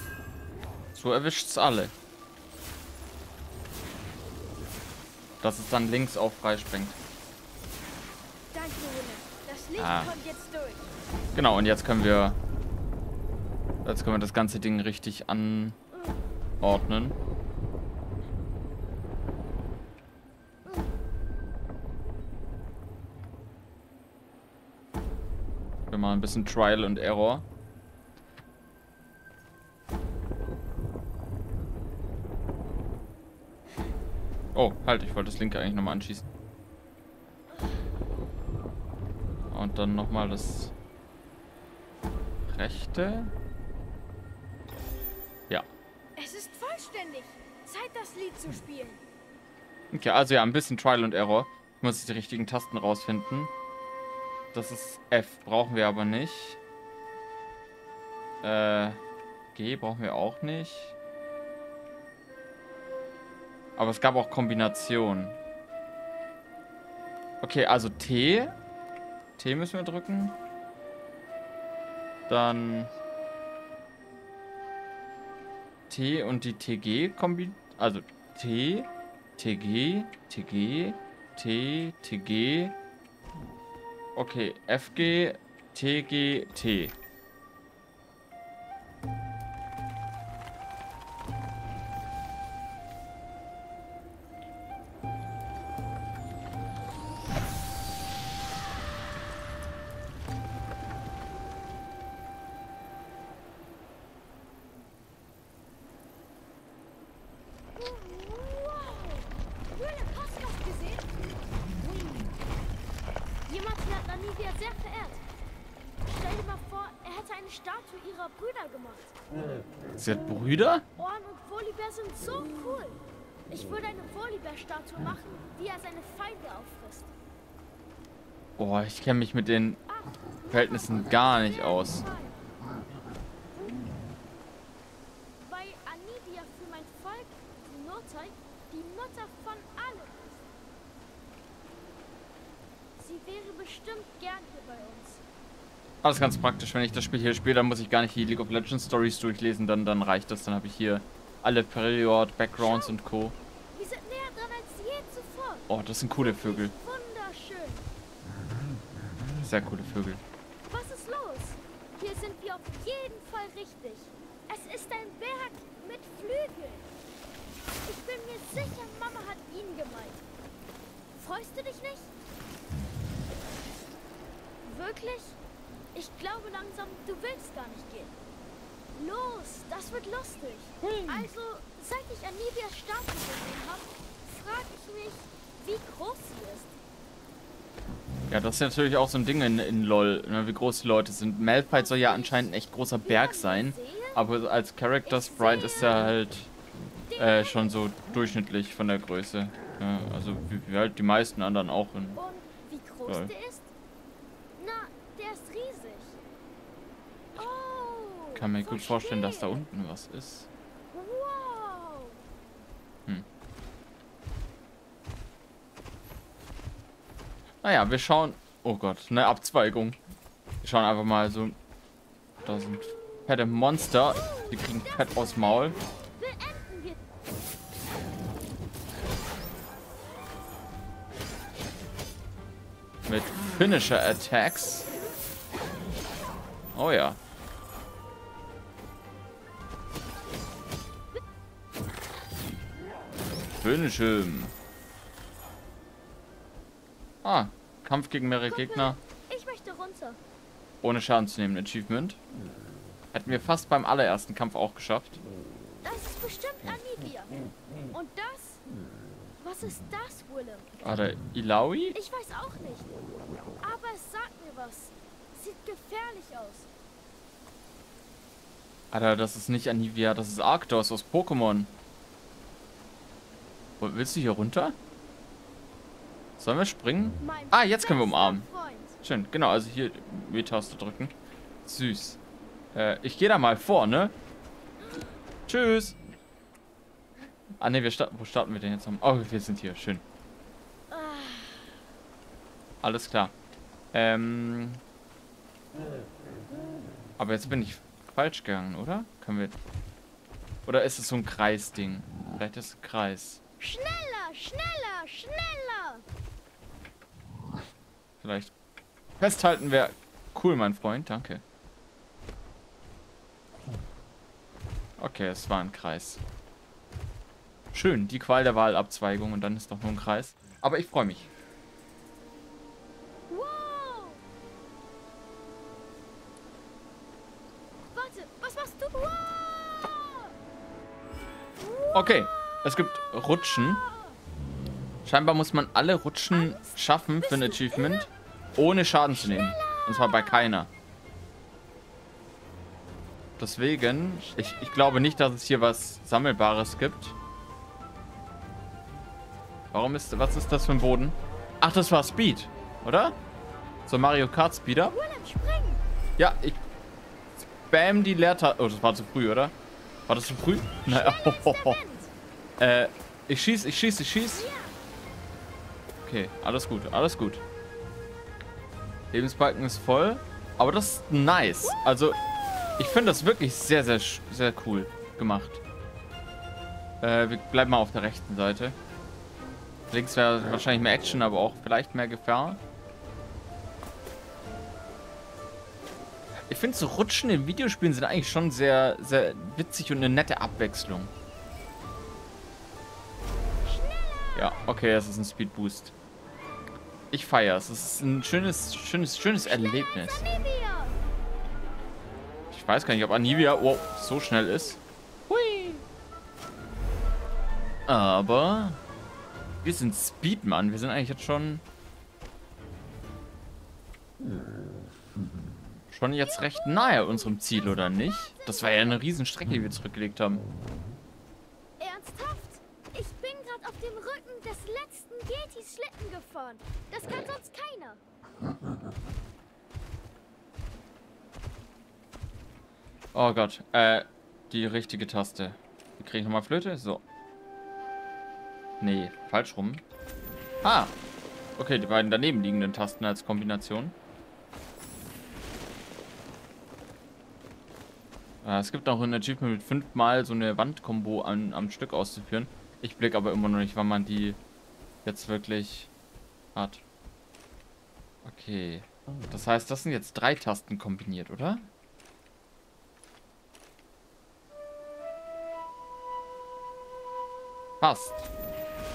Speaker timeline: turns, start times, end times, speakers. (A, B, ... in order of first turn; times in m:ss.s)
0:00.9-0:01.9 A
0:05.4-0:07.0 A
0:08.5-0:10.9 B
0:09.8-0:10.1 A
0:11.3-0:12.4 A
0:13.8-0:15.8 A
0:15.9-0:16.2 B
0:16.6-0:17.2 A
0:25.9-0:27.4 A
0:34.5-0:36.3 A
0:37.6-0:37.8 B
0:39.5-0:40.7 A
0:42.5-0:43.3 A
0:46.2-0:49.0 B
0:49.9-0:53.5 A
0:54.5-0:56.6 A
0:58.4-0:59.0 A
0:59.5-1:00.9 A
1:03.8-1:05.4 A
1:07.4-1:08.6 A
1:09.4-1:10.4 A
1:12.3-1:12.9 A
1:15.9-1:22.7 A
1:24.2-1:26.9 A
1:47.7-1:51.1 B
1:51.8-1:52.3 B
1:53.4-1:55.2 B
1:56.1-1:59.1 B
2:00.0-2:00.8 A
2:01.0-2:07.1 B
2:08.6-2:09.8 A
2:09.9-2:12.5 B
2:10.5-2:12.0 A
2:15.4-2:20.5 B
2:23.0-2:25.2 B
2:26.0-2:33.4 A
2:32.6-2:33.0 B
2:33.7-2:37.9 B
2:35.7-2:36.7 A
2:39.4-2:40.2 A
2:40.7-2:46.9 B
2:47.8-2:50.2 B
2:51.2-2:52.1 B
2:54.6-2:55.4 B
2:55.9-2:58.1 B
2:58.9-3:06.7 B
3:00.8-3:01.2 A
3:08.3-3:16.5 A
3:11.7-3:12.5 B
3:13.0-3:14.2 B
3:15.0-3:16.1 B
3:17.1-3:17.8 B
3:17.2-3:22.2 A
3:22.1-3:23.7 B
3:24.6-3:26.2 B
3:27.4-3:29.6 B
3:28.3-3:30.5 A
3:30.9-3:32.2 B
3:37.6-3:40.0 A
3:40.6-3:41.6 A
3:42.4-3:45.8 A
3:44.1-3:47.0 B
3:53.1-3:54.9 A
3:56.7-3:57.2 A
4:03.6-4:04.5 A
4:07.2-4:09.0 A
4:08.5-4:10.2 B
4:10.8-4:12.2 A
4:13.1-4:15.2 A
4:15.8-4:17.4 B
4:17.9-4:18.6 B
4:19.4-4:20.8 B
4:20.8-4:22.0 A
4:21.9-4:22.9 B
4:23.6-4:26.7 B
4:28.9-4:31.8 A
4:33.8-4:34.8 A
4:36.4-4:38.4 A
4:37.2-4:39.0 B
4:39.0-4:42.2 A
4:42.7-4:44.1 A
4:44.8-4:45.2 B
4:45.5-4:46.0 A
4:47.6-4:50.0 A
4:50.9-4:51.8 B
4:52.8-4:53.3 A
4:53.9-4:54.8 A
4:57.2-4:59.6 A
5:00.6-5:03.4 A
5:03.6-5:06.0 B
5:08.2-5:08.5 A
5:09.2-5:11.4 A
5:15.0-5:16.2 A
5:17.7-5:21.3 A
5:23.3-5:24.2 B
5:27.9-5:30.3 B
5:31.6-5:32.3 B
5:31.9-5:33.8 A
5:33.2-5:34.2 B
5:35.0-5:40.7 A
5:36.3-5:38.1 B
5:39.1-5:40.5 B
5:43.4-5:47.2 A
5:49.7-5:53.2 A
5:53.9-5:55.0 A
5:54.9-5:55.8 B
5:56.2-5:56.6 A
5:57.4-5:59.5 A
6:00.1-6:01.8 A
6:00.8-6:02.1 B
6:02.6-6:04.5 A
6:04.3-6:04.8 B
6:06.0-6:07.4 A
6:09.1-6:12.2 A
6:12.8-6:15.6 A
6:17.0-6:18.8 A
6:19.9-6:22.6 A
6:26.5-6:31.1 A
6:33.6-6:34.6 B
6:34.3-6:35.9 A
6:37.1-6:40.3 A
6:39.4-6:41.0 B
6:42.5-6:45.8 A
6:47.9-6:48.8 A
6:49.6-6:51.6 A
6:55.9-7:00.4 A
6:56.2-6:59.0 B
7:01.8-7:08.0 B
7:13.1-7:17.0 A
7:18.8-7:19.8 A
7:20.6-7:21.0 A
7:21.6-7:24.0 A
7:28.4-7:34.4 A
7:35.0-7:35.9 A
7:36.5-7:36.8 A
7:38.2-7:41.7 A
7:47.8-7:48.3 A